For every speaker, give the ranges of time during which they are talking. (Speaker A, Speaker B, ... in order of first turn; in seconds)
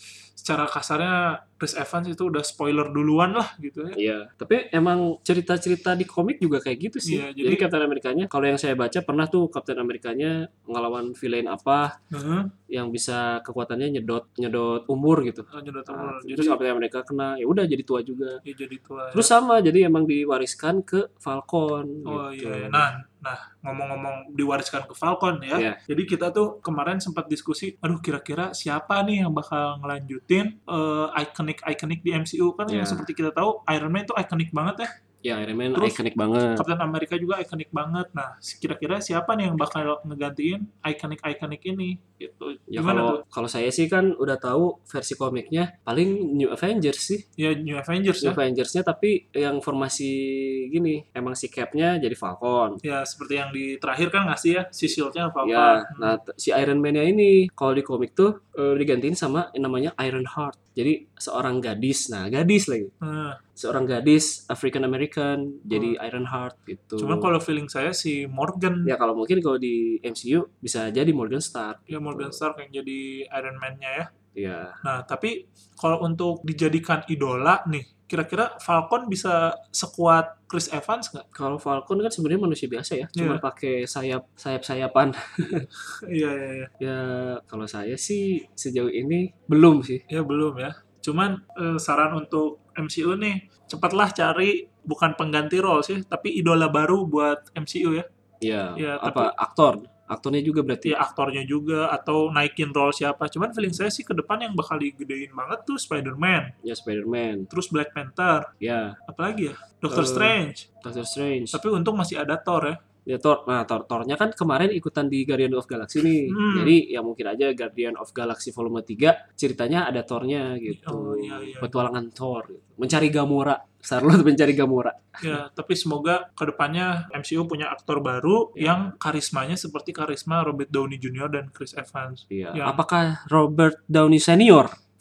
Speaker A: 0.4-4.0, 7.0-7.6, 12.1-12.5, 15.5-16.6, 18.4-19.3, 22.1-34.9, 35.7-36.0, 36.5-43.2, 47.4-48.4, 52.8-56.2, 63.0-63.4, 65.7-66.0, 67.0-68.9, 71.9-74.1, 74.8-81.3, 83.1-83.4, 85.9-86.7, 90.1-98.0, 98.8-99.3, 100.8-106.5, 107.5-108.5, 109.1-110.7, 111.5-112.8, 116.2-116.8, 120.7-121.8, 125.2-132.8
Speaker B: 3.9-11.9, 12.7-18.4, 19.1-22.9, 25.5-25.8, 32.7-33.1, 35.2-36.6, 42.7-47.2, 48.2-52.8, 55.4-62.9, 63.6-67.3, 68.8-72.4, 74.3-74.8, 81.3-85.7, 86.8-90.0, 98.4-100.9, 106.6-107.5, 108.6-109.0, 109.9-111.6, 113.1-125.4, 128.6-128.9, 132.3-134.8